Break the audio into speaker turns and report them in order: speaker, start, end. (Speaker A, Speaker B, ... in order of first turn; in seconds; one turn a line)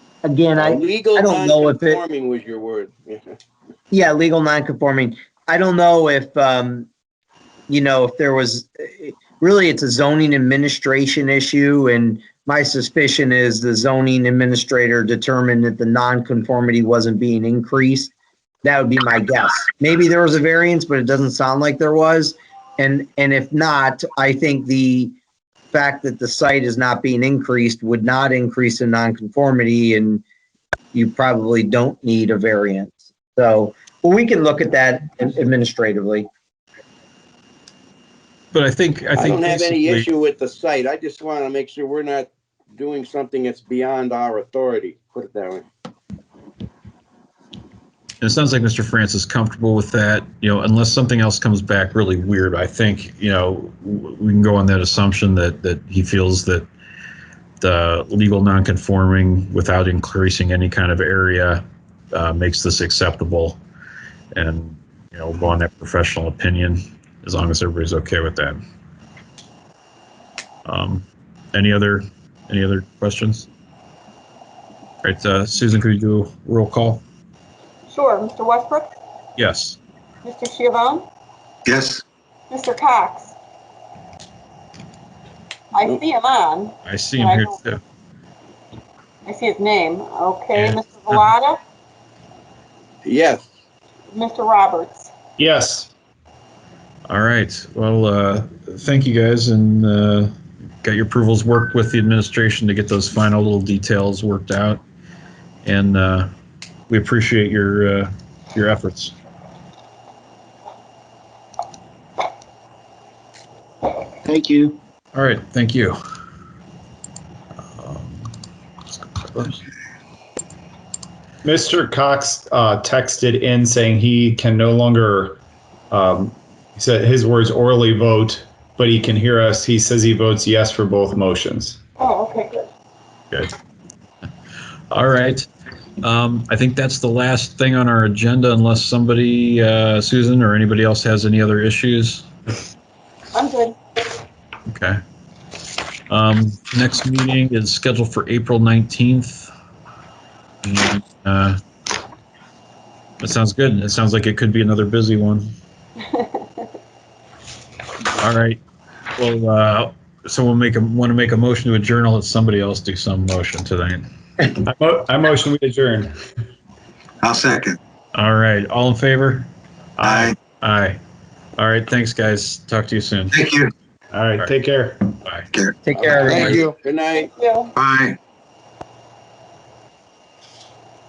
Speaker A: 0.2-2.0
Speaker B: 0.6-3.2
Speaker A: 3.9-6.9
Speaker A: 7.7-18.1
Speaker A: 18.6-25.1
Speaker A: 25.7-30.2
Speaker A: 30.9-36.3
Speaker C: 38.5-40.1
Speaker B: 39.2-45.6
Speaker C: 48.2-56.7
Speaker C: 57.6-63.6
Speaker C: 64.3-68.6
Speaker C: 70.7-73.5
Speaker C: 75.0-77.0
Speaker D: 77.9-79.0
Speaker C: 79.4-79.8
Speaker D: 80.2-81.1
Speaker E: 81.7-82.0
Speaker D: 82.5-83.3
Speaker D: 85.7-87.5
Speaker C: 86.8-87.8
Speaker D: 89.3-91.6
Speaker C: 90.5-91.3
Speaker B: 93.0-93.5
Speaker D: 94.1-95.1
Speaker F: 95.4-95.9
Speaker C: 97.1-104.8
Speaker C: 105.7-106.3
Speaker C: 106.9-109.2
Speaker A: 114.3-114.7
Speaker C: 115.1-116.0
Speaker C: 117.7-118.3
Speaker C: 118.9-119.6
Speaker F: 121.4-125.4
Speaker F: 125.9-131.8
Speaker D: 132.0-132.7
Speaker C: 134.9-135.5
Speaker C: 136.0-142.3
Speaker D: 143.3-143.8
Speaker C: 144.7-145.0
Speaker C: 146.1-149.5
Speaker C: 150.6-151.6
Speaker C: 153.2-155.5
Speaker C: 158.2-158.6
Speaker C: 159.2-164.0
Speaker F: 164.5-166.1
Speaker E: 167.2-167.8
Speaker C: 168.1-169.5
Speaker F: 170.0-170.3
Speaker E: 170.0-170.4
Speaker C: 170.5-171.0
Speaker C: 171.6-173.3
Speaker E: 173.3-173.7
Speaker F: 174.1-175.2
Speaker A: 175.8-176.7
Speaker C: 176.0-176.6
Speaker B: 176.3-177.3
Speaker D: 177.4-177.7
Speaker E: 177.8-178.2